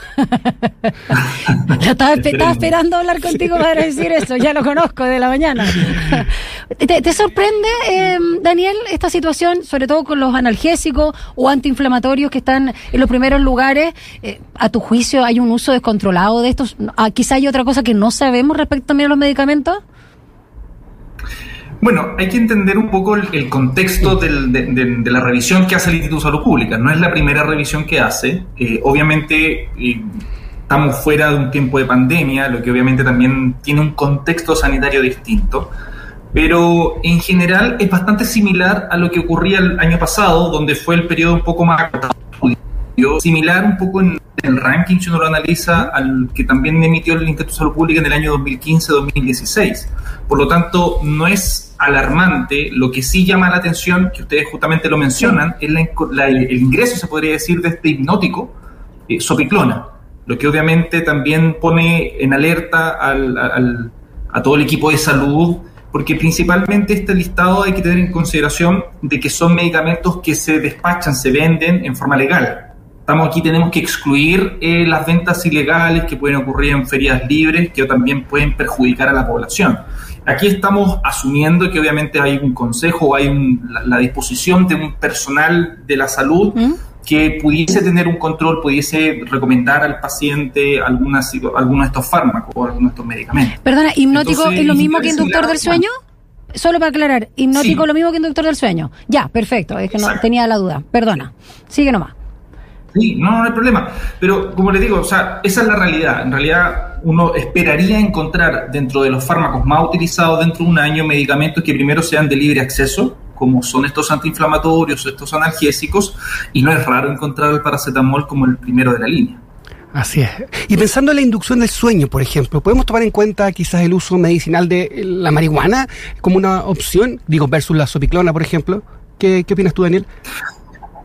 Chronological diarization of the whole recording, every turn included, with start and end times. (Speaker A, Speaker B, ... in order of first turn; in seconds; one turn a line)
Speaker A: 0.2-1.1
Speaker A: 1.7-19.8
Speaker B: 2.2-2.7
Speaker B: 21.8-35.7
Speaker B: 36.3-58.5
Speaker B: 59.1-93.6
Speaker A: 93.6-95.9
Speaker B: 94.1-95.8
Speaker A: 96.5-102.1
Speaker B: 97.5-97.8
Speaker B: 99.9-100.2
Speaker B: 102.9-119.4
Speaker C: 119.9-130.1